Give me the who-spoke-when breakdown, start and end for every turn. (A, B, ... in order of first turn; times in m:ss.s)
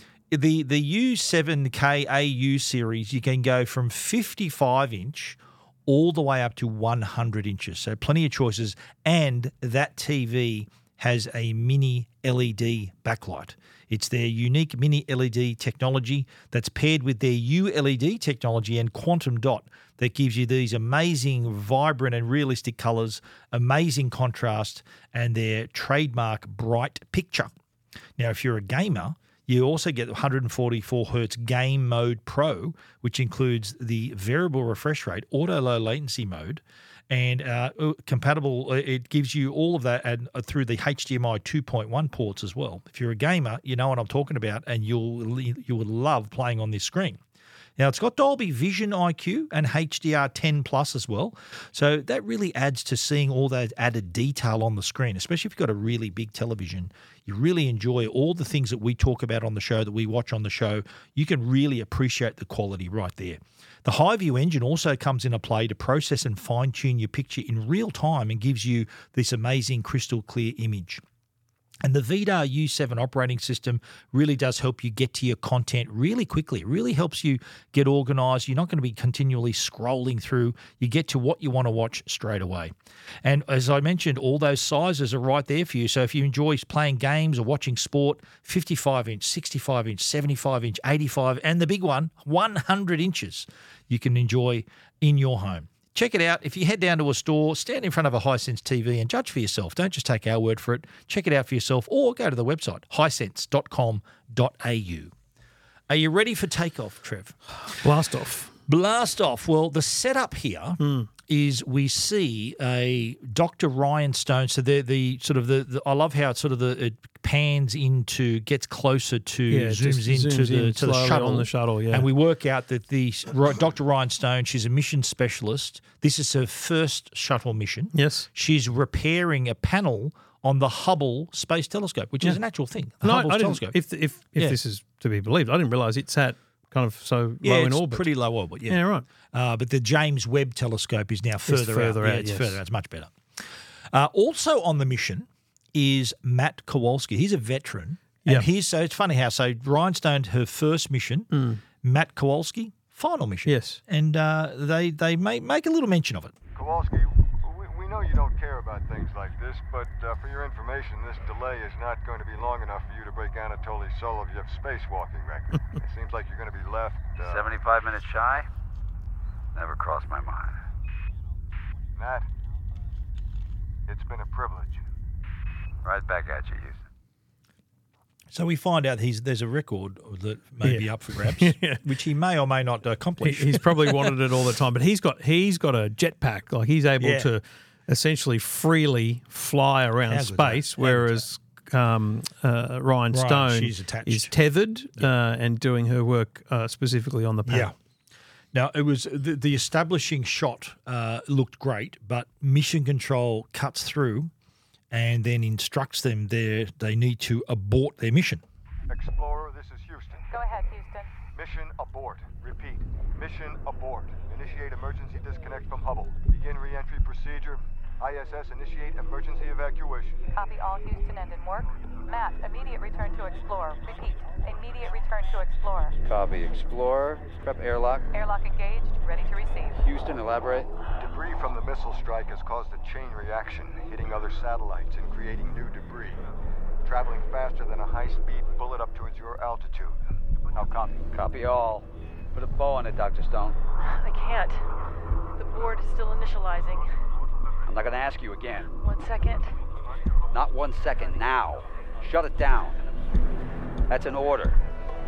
0:00.3-0:27.5 A
0:28.2-0:47.2 A
0:47.8-1:11.0 A
1:11.8-1:45.1 A
1:45.9-1:47.4 A
1:47.7-1:48.5 B
1:48.7-2:13.8 A
1:50.8-1:51.1 B
1:59.5-2:02.1 B
2:07.9-2:08.3 B
2:13.0-2:18.1 B
2:17.4-2:31.3 A
2:18.7-2:19.1 B
2:21.5-2:22.6 B
2:31.3-2:31.6 B
2:31.8-2:36.3 A
2:33.5-2:33.8 B
2:36.6-2:47.5 C
2:47.2-2:48.5 D
2:49.6-2:50.6 D
2:52.0-2:52.3 C
2:53.9-2:54.8 C
2:55.8-2:56.8 D
2:58.3-3:04.1 A
3:00.6-3:01.8 B
3:03.2-3:17.7 B
3:07.0-3:07.3 A
3:10.0-3:11.3 A
3:13.1-3:14.3 A
3:17.5-3:17.8 A
3:18.5-3:24.3 A
3:24.9-3:28.4 A
3:28.9-3:30.3 C
3:30.3-3:31.1 E
3:31.3-3:40.3 C
3:40.3-3:46.0 E
3:46.0-3:48.1 D
3:48.1-3:49.8 E
3:49.8-3:50.7 D
3:51.0-3:56.2 C
3:56.8-4:00.0 C
4:00.5-4:01.0 C
4:01.1-4:03.6 D
4:03.8-4:04.6 F
4:05.4-4:06.9 F
4:07.7-4:08.7 D
4:08.8-4:09.5 F
4:10.3-4:12.8 D
4:13.9-4:14.6 D